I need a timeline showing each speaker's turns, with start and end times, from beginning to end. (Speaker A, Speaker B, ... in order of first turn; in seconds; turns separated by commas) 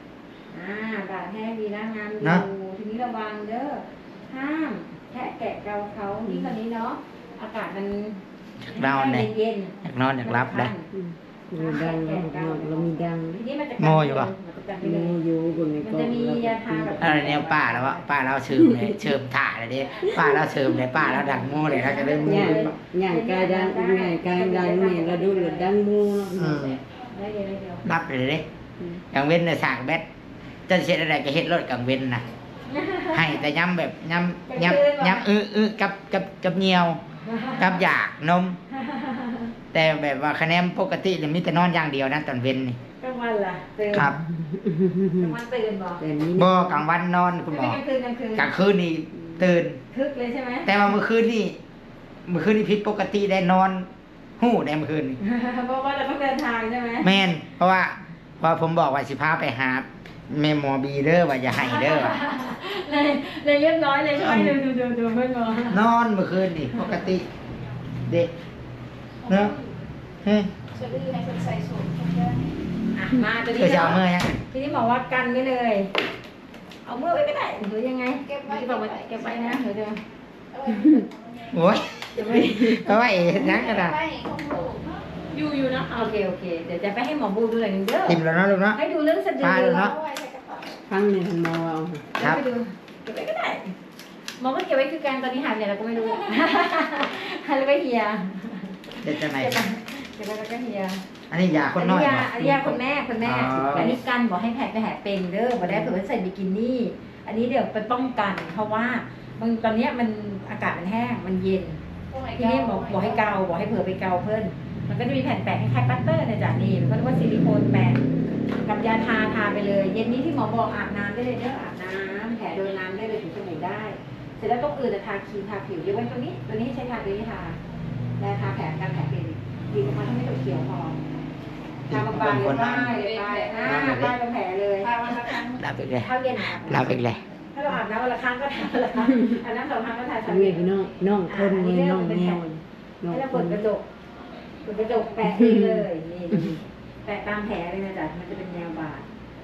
Speaker A: 0.5-10.9, Speaker B: 6.3-6.6, Speaker C: 8.6-9.3, Speaker C: 9.8-10.7, Speaker B: 10.9-13.4, Speaker A: 11.6-12.8, Speaker A: 13.3-15.2, Speaker C: 13.8-14.3, Speaker B: 14.8-17.4, Speaker A: 15.8-18.0, Speaker C: 17.0-22.7, Speaker B: 18.5-19.1, Speaker D: 19.9-20.8, Speaker A: 20.9-25.7, Speaker B: 22.2-26.6, Speaker C: 26.3-26.8, Speaker A: 27.1-27.9, Speaker C: 27.8-28.4, Speaker C: 29.1-30.1, Speaker C: 30.7-32.2, Speaker A: 32.7-33.4, Speaker C: 33.1-37.0, Speaker A: 34.5-35.3, Speaker A: 37.2-37.8, Speaker C: 37.6-38.6, Speaker A: 38.7-39.5, Speaker C: 39.7-42.8, Speaker A: 43.0-44.1, Speaker C: 43.9-44.2, Speaker B: 44.0-45.4, Speaker A: 45.2-46.0, Speaker B: 46.0-46.8, Speaker C: 46.4-47.8, Speaker A: 47.5-48.5, Speaker C: 48.4-49.8, Speaker A: 49.9-50.7, Speaker C: 50.6-51.6, Speaker C: 52.3-53.9, Speaker C: 54.4-55.2, Speaker A: 55.2-57.1, Speaker C: 57.0-62.2, Speaker A: 61.5-65.8, Speaker C: 64.2-64.6, Speaker C: 65.7-67.3, Speaker A: 66.7-67.1, Speaker A: 69.2-69.7, Speaker C: 69.3-69.5, Speaker C: 70.2-70.5, Speaker D: 70.7-72.5, Speaker A: 73.0-75.9, Speaker C: 73.5-74.4, Speaker A: 76.8-80.0, Speaker D: 78.2-79.6, Speaker D: 80.5-81.9, Speaker B: 80.7-81.0, Speaker C: 81.5-81.9, Speaker A: 82.2-82.9, Speaker C: 82.5-84.0, Speaker D: 83.2-85.0, Speaker A: 85.3-88.2, Speaker C: 88.1-88.8, Speaker A: 88.8-89.9, Speaker C: 89.4-89.9, Speaker D: 89.6-90.8, Speaker B: 90.9-92.0, Speaker A: 92.2-93.7, Speaker C: 92.2-92.5, Speaker A: 94.4-101.0, Speaker C: 99.0-99.7, Speaker C: 101.3-104.0, Speaker A: 101.8-111.8, Speaker D: 112.1-113.4, Speaker A: 112.4-118.0, Speaker A: 118.7-127.6, Speaker A: 128.2-131.0, Speaker C: 131.9-133.0, Speaker A: 131.9-134.9, Speaker D: 132.4-133.9, Speaker C: 133.6-134.2, Speaker D: 134.8-135.6, Speaker C: 135.6-137.2, Speaker A: 136.0-140.7, Speaker B: 140.3-143.7, Speaker A: 141.3-142.4, Speaker A: 143.1-143.9, Speaker A: 144.7-149.0, Speaker B: 145.2-146.6